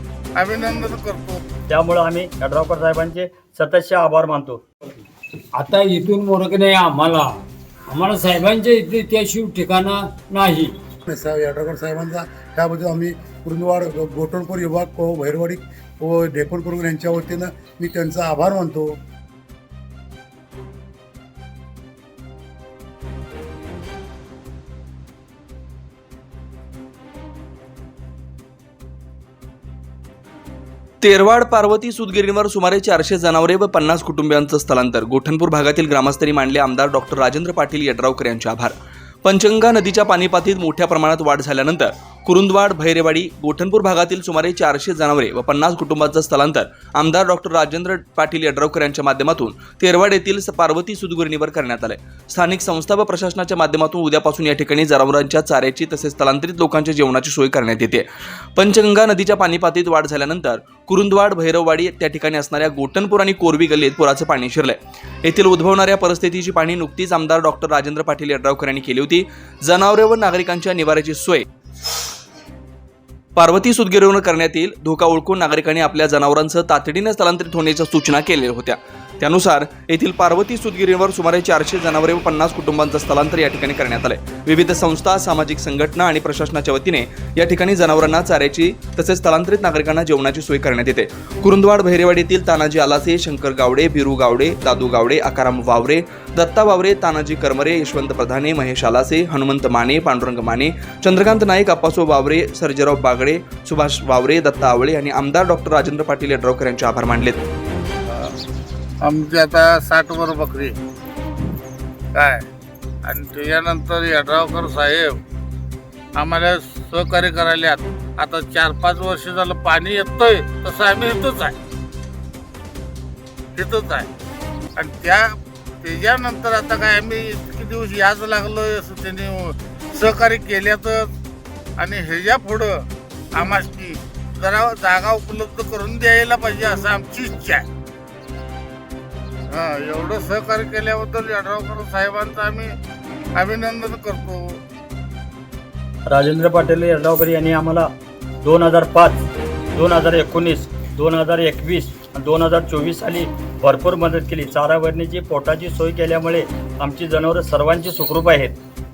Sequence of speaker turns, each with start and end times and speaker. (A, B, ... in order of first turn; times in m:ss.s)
0:00.3-0:01.4 A
0:01.7-0:04.6 B
0:05.6-0:07.3 C
0:07.9-0:10.7 C
0:11.0-0:18.9 D
0:31.0-1:11.4 E
1:13.4-1:47.4 E
1:48.1-1:48.4 A
1:49.0-1:50.8 A
1:52.1-1:52.4 A
1:53.0-1:55.2 A
1:56.1-2:01.6 A
2:03.5-2:04.1 A
2:04.8-2:11.1 A
2:11.8-2:17.6 A
2:19.5-2:22.8 A
2:23.3-2:24.6 A
2:26.1-2:27.9 B
2:28.4-2:38.6 B